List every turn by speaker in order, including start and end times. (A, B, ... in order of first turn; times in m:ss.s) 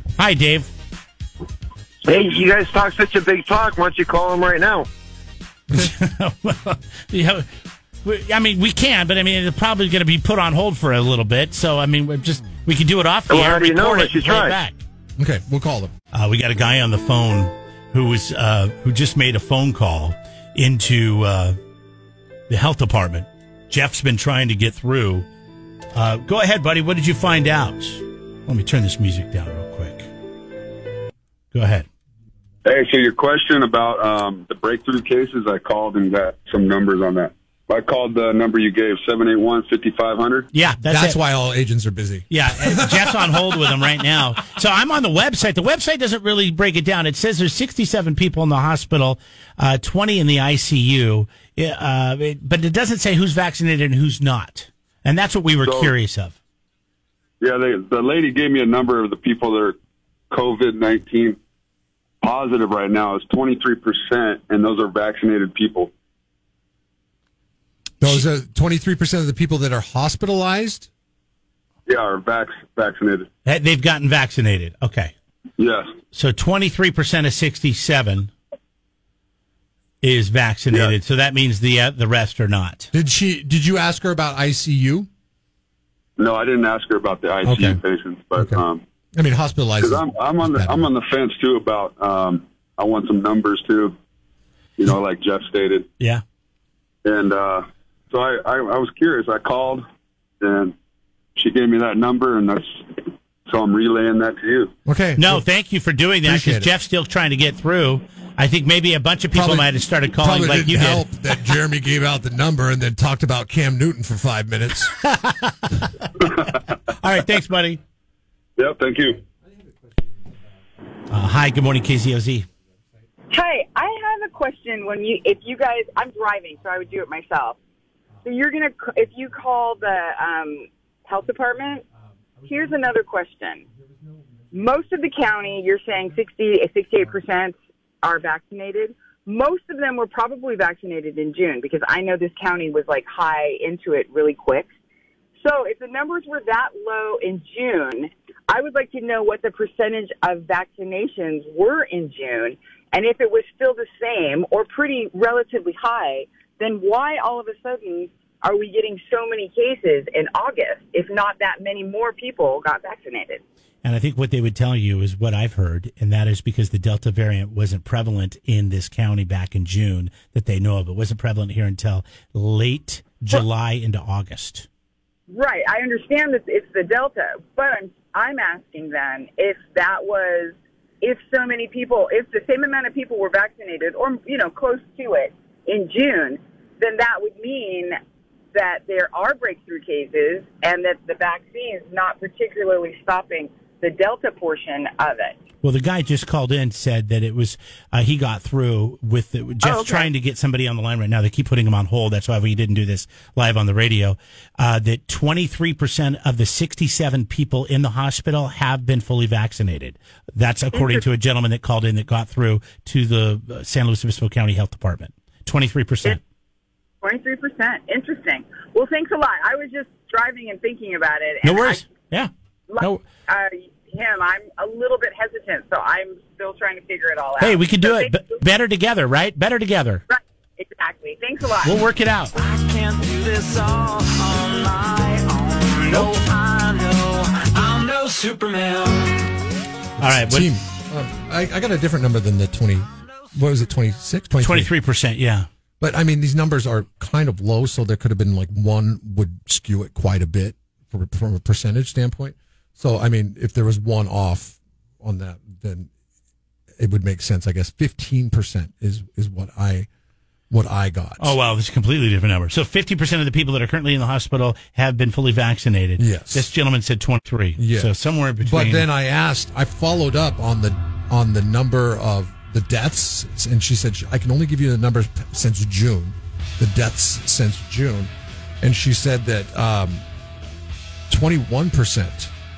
0:00.2-0:00.7 A
0:02.1-0:04.9 B
0:05.7-0:07.5 A
0:08.0-0:14.8 A
0:13.3-0:14.5 B
0:15.2-0:15.9 C
0:16.1-0:21.6 A
0:22.5-0:25.3 A
0:26.0-0:30.1 A
0:31.5-0:31.9 A
0:32.6-0:40.5 D
0:40.5-0:41.2 A
0:40.8-0:43.3 C
0:42.3-0:56.4 A
0:55.6-0:55.9 D
0:57.4-0:59.8 D
1:00.3-1:01.4 D
1:02.2-1:05.9 D
1:08.0-1:10.9 C
1:11.9-1:13.3 D
1:13.4-1:15.1 A
1:15.6-1:15.9 D
1:16.1-1:18.3 A
1:20.0-1:22.9 A
1:22.9-1:25.1 C
1:26.2-1:28.8 D
1:27.4-1:27.8 C
1:29.2-1:30.9 C
1:29.8-1:33.9 D
1:34.8-1:35.9 D
1:37.0-1:39.8 D
1:40.4-1:40.7 D
1:41.4-1:44.7 D
1:44.9-1:45.5 C
1:45.2-1:51.1 A
1:46.2-1:46.7 C
1:49.3-1:54.9 C
1:54.9-1:55.9 A
1:56.9-1:57.8 A
1:58.6-1:59.2 D
1:59.3-2:00.3 C
2:01.1-2:02.5 A
2:03.3-2:07.6 E
2:08.2-2:11.8 E
2:12.4-2:12.9 C
2:12.5-2:13.6 E
2:13.8-2:14.6 C
2:14.5-2:24.7 E
2:15.8-2:16.2 C
2:25.4-2:43.4 E
2:43.8-2:54.7 A
2:55.3-3:08.0 E
3:08.5-3:15.4 E
3:15.6-3:36.2 A
3:19.6-3:20.1 E
3:30.7-3:31.0 E
3:37.0-3:41.9 E
3:41.4-3:43.0 A
3:42.7-3:48.3 E
3:47.4-3:50.0 A
3:50.1-3:51.8 E
3:51.6-3:52.3 A
3:52.4-3:59.1 F
4:00.0-4:04.7 C
4:00.0-4:00.5 A
4:04.4-4:05.5 A
4:05.8-4:15.9 C
4:16.8-4:19.9 C
4:20.5-4:21.4 C
4:21.2-4:28.8 A
4:26.0-4:26.5 C
4:27.6-4:40.0 C
4:41.1-4:42.3 C